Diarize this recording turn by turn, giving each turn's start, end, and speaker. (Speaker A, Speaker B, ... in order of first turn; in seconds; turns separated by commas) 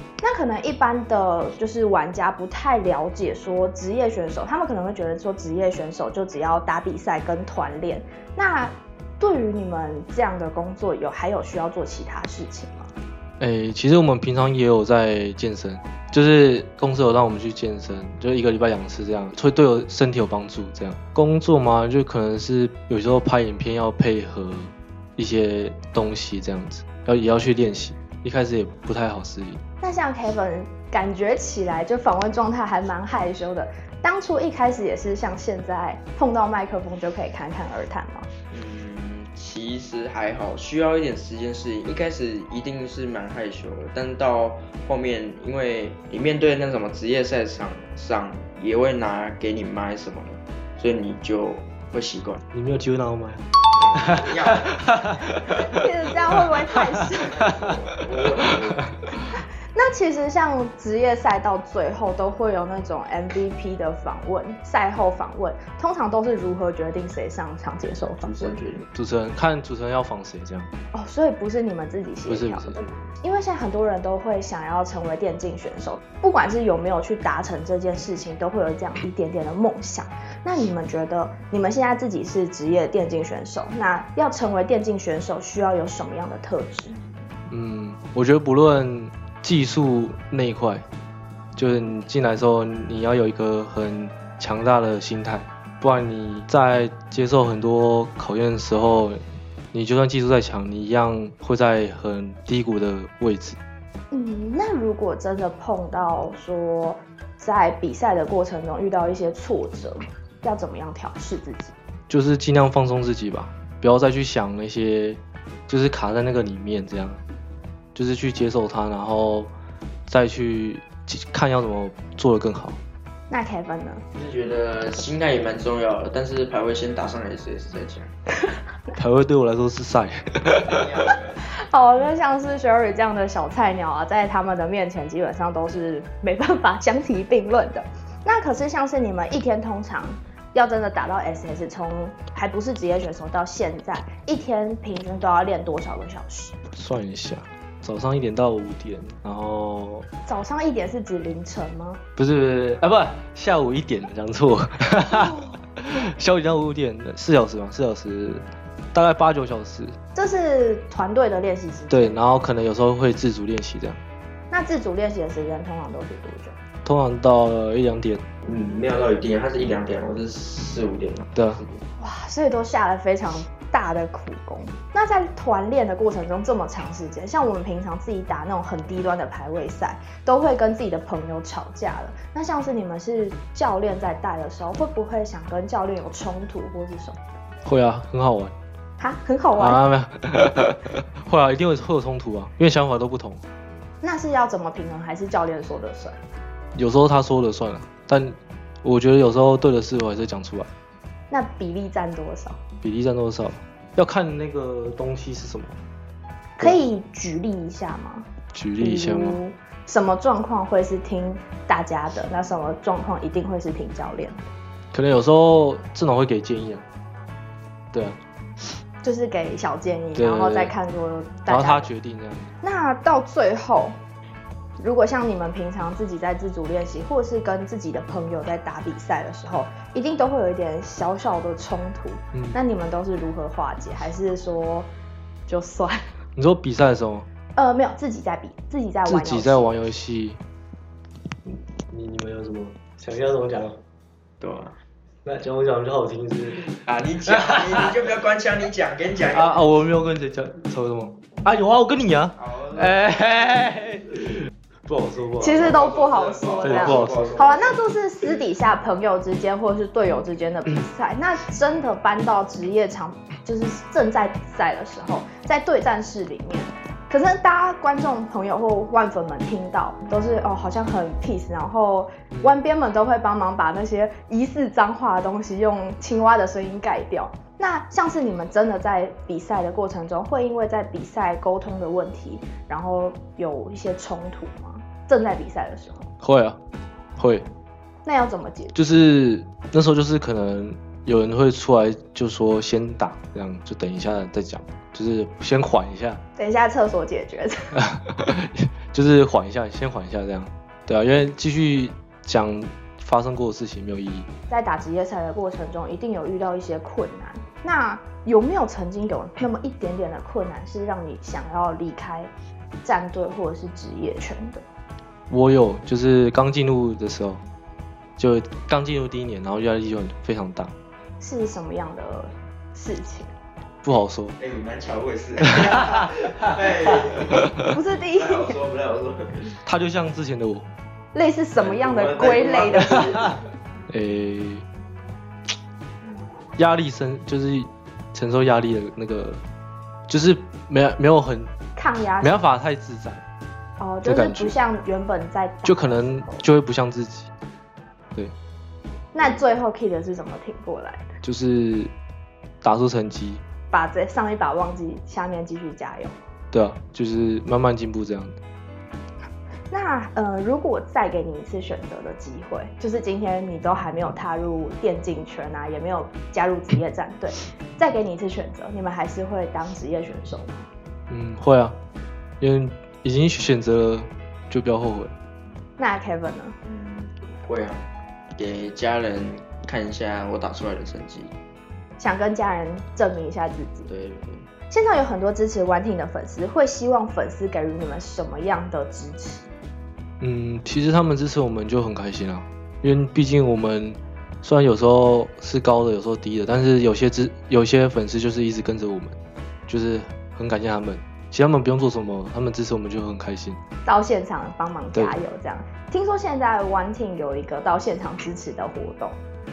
Speaker A: 0.2-12.9, Speaker B: 13.4-29.6, Speaker A: 29.8-38.3, Speaker C: 38.5-52.4, Speaker B: 52.5-53.4, Speaker C: 53.7-54.8, Speaker B: 54.0-55.6, Speaker A: 55.6-57.4, Speaker C: 57.3-58.9, Speaker A: 59.7-68.6, Speaker C: 68.2-68.8, Speaker B: 68.9-70.7, Speaker A: 70.9-87.0, Speaker B: 72.3-72.8, Speaker B: 87.5-90.8, Speaker B: 91.5-99.2, Speaker B: 99.7-103.6, Speaker A: 104.1-111.7, Speaker B: 112.1-117.2, Speaker B: 117.9-119.5, Speaker B: 120.1-122.8, Speaker A: 123.3-124.0, Speaker C: 124.1-128.1, Speaker B: 128.9-130.6, Speaker C: 130.7-131.3, Speaker A: 131.5-146.6, Speaker B: 146.7-150.1, Speaker A: 150.3-152.0, Speaker B: 152.2-159.9, Speaker A: 160.1-162.2, Speaker B: 161.9-164.0, Speaker A: 164.5-166.5, Speaker B: 166.8-168.2, Speaker C: 168.4-171.8, Speaker B: 171.3-171.6, Speaker A: 172.0-187.2, Speaker B: 187.6-188.5, Speaker A: 189.0-189.8, Speaker B: 189.6-193.4, Speaker A: 194.0-196.2, Speaker B: 196.7-200.7, Speaker A: 201.3-202.6, Speaker B: 202.8-205.8, Speaker A: 206.6-208.3, Speaker B: 208.5-209.4, Speaker A: 208.8-214.5, Speaker B: 214.9-216.8, Speaker B: 217.9-218.2, Speaker A: 219.0-221.9, Speaker B: 220.2-220.7, Speaker B: 221.5-222.5, Speaker A: 222.6-224.0, Speaker A: 224.8-234.9, Speaker A: 235.5-236.1, Speaker B: 236.3-237.2, Speaker A: 237.6-239.7, Speaker B: 239.1-240.4, Speaker B: 241.5-243.8, Speaker C: 244.4-244.8, Speaker B: 245.2-246.7, Speaker C: 246.8-249.6, Speaker B: 247.3-247.6, Speaker B: 249.3-254.2, Speaker C: 252.3-253.1, Speaker B: 254.9-255.6, Speaker A: 255.4-286.1, Speaker C: 255.6-257.8, Speaker B: 256.6-257.2, Speaker B: 286.2-286.6, Speaker B: 287.2-287.4, Speaker A: 288.1-288.8, Speaker B: 288.7-296.2, Speaker A: 296.4-297.8, Speaker B: 297.7-304.3, Speaker A: 304.5-312.3, Speaker A: 312.8-314.6, Speaker B: 315.3-317.4, Speaker B: 318.2-320.7, Speaker A: 321.2-323.3, Speaker B: 323.8-324.4, Speaker C: 324.4-327.6, Speaker A: 327.7-328.6, Speaker C: 328.1-329.6, Speaker B: 329.6-330.7, Speaker A: 331.1-333.1, Speaker C: 331.6-333.3, Speaker B: 333.9-334.6, Speaker C: 336.0-336.3, Speaker B: 336.6-339.4, Speaker B: 340.1-341.5, Speaker A: 341.8-342.4, Speaker B: 342.2-343.2, Speaker A: 343.8-346.4, Speaker B: 344.0-344.6, Speaker B: 345.6-347.3, Speaker A: 349.1-351.1, Speaker B: 351.2-351.9, Speaker B: 352.6-353.4, Speaker A: 353.7-356.1, Speaker B: 356.5-358.4, Speaker A: 359.7-370.7, Speaker B: 371.1-371.8, Speaker B: 372.4-375.1, Speaker A: 375.8-376.6, Speaker C: 376.6-377.9, Speaker C: 378.4-381.3, Speaker A: 382.0-383.9, Speaker C: 383.9-384.4, Speaker A: 384.7-389.5, Speaker B: 390.2-399.2, Speaker B: 399.7-403.6, Speaker A: 403.9-409.1